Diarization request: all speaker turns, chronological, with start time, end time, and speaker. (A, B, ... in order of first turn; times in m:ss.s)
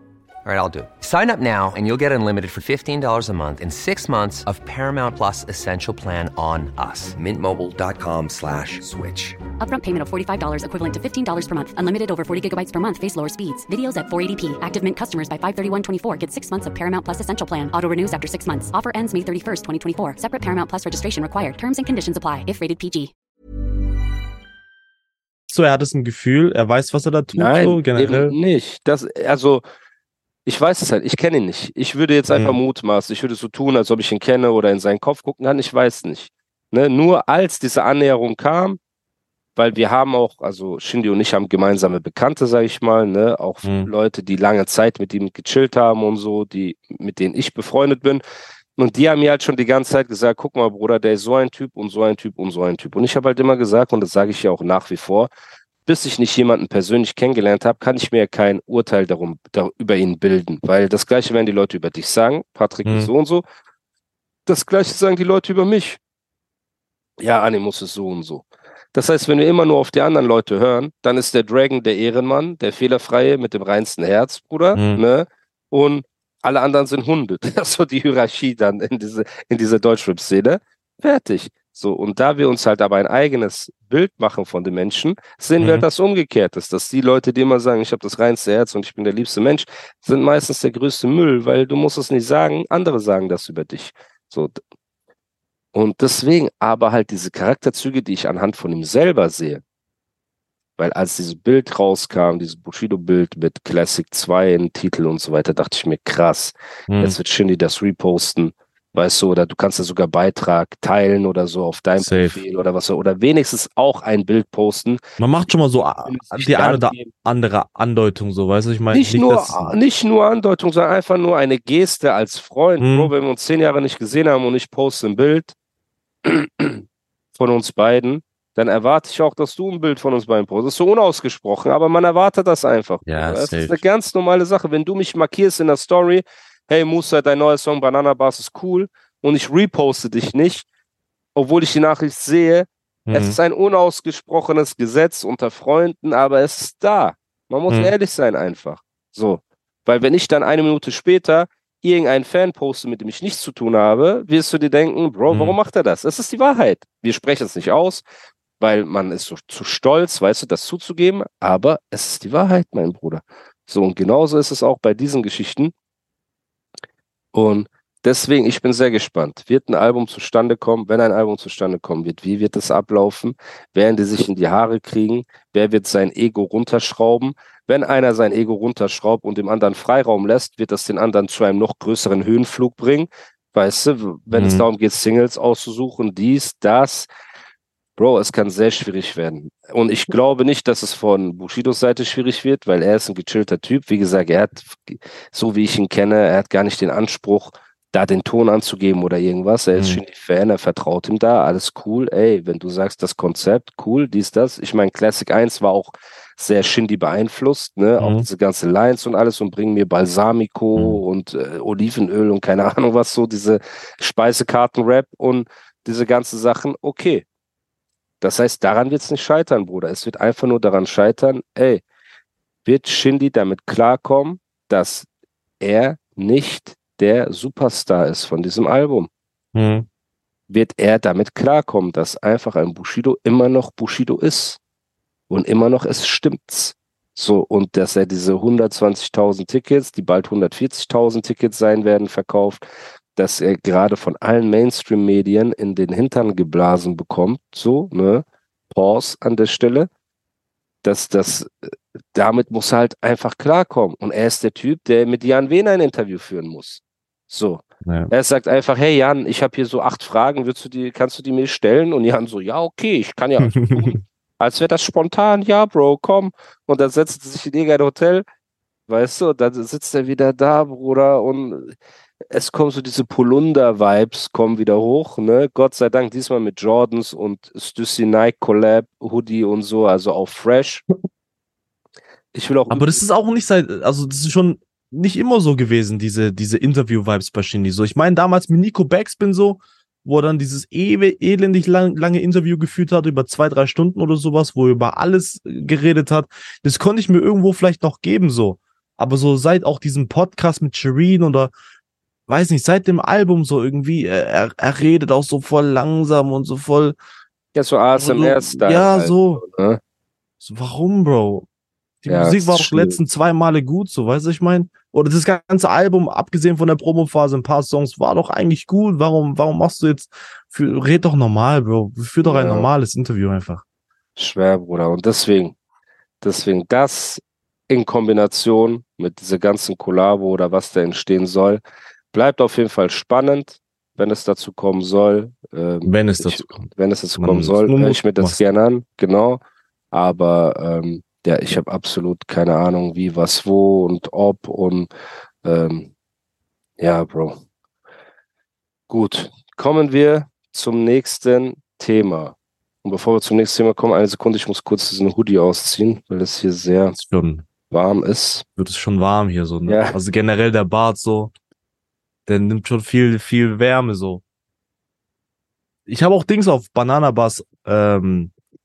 0:00.4-0:09.4 A
0:09.6-0:23.1 B
0:25.5-0:28.4 C
0:27.3-0:29.6 D
0:30.4-0:38.8 D
0:32.3-0:32.6 C
0:39.6-0:48.2 D
0:43.6-0:43.9 C
0:48.8-0:55.3 D
0:55.8-1:03.4 D
1:02.8-1:03.1 C
1:04.4-1:06.0 D
1:07.2-1:34.6 D
1:14.7-1:15.0 C
1:25.6-1:25.9 C
1:35.7-1:39.6 D
1:40.8-1:55.0 D
1:46.9-1:47.2 C
1:52.0-1:52.4 C
1:55.2-1:59.8 C
1:56.0-1:57.1 D
1:58.9-2:05.5 D
2:02.8-2:03.1 C
2:06.2-2:06.8 D
2:07.4-2:20.6 D
2:13.0-2:13.8 C
2:21.3-2:38.0 D
2:23.1-2:23.4 C
2:35.3-2:35.6 C
2:38.6-2:45.7 D
2:47.3-3:07.1 D
3:04.3-3:04.7 C
3:08.0-3:37.2 D
3:19.7-3:20.0 C
3:28.0-3:28.2 C
3:30.8-3:31.0 C
3:38.2-3:41.8 D
3:42.6-3:45.1 D
3:45.6-3:49.1 D
3:49.5-3:49.9 C
3:50.5-3:54.6 D
3:55.3-4:02.6 D
4:03.2-4:09.9 D
4:10.8-4:11.5 D
4:12.1-4:28.2 D
4:17.8-4:18.1 C
4:23.4-4:24.0 C
4:28.9-4:31.8 D
4:32.3-4:40.8 D
4:42.3-4:43.0 D
4:42.7-5:01.5 C
5:02.3-5:07.0 C
5:07.5-5:09.8 D
5:08.0-5:09.4 C
5:10.4-5:11.5 C
5:12.0-5:23.6 C
5:12.1-5:13.0 D
5:22.2-5:22.7 D
5:24.2-5:25.5 D
5:26.2-5:31.6 D
5:32.1-5:44.9 D
5:35.8-5:36.6 C
5:37.2-5:38.4 C
5:45.4-5:45.9 D
5:46.8-5:47.4 D
5:48.9-5:57.0 D
5:57.0-5:57.4 C
5:57.7-5:58.4 D
5:58.6-6:01.3 C
5:59.7-6:00.0 D
6:02.2-6:04.2 C
6:05.9-6:08.3 C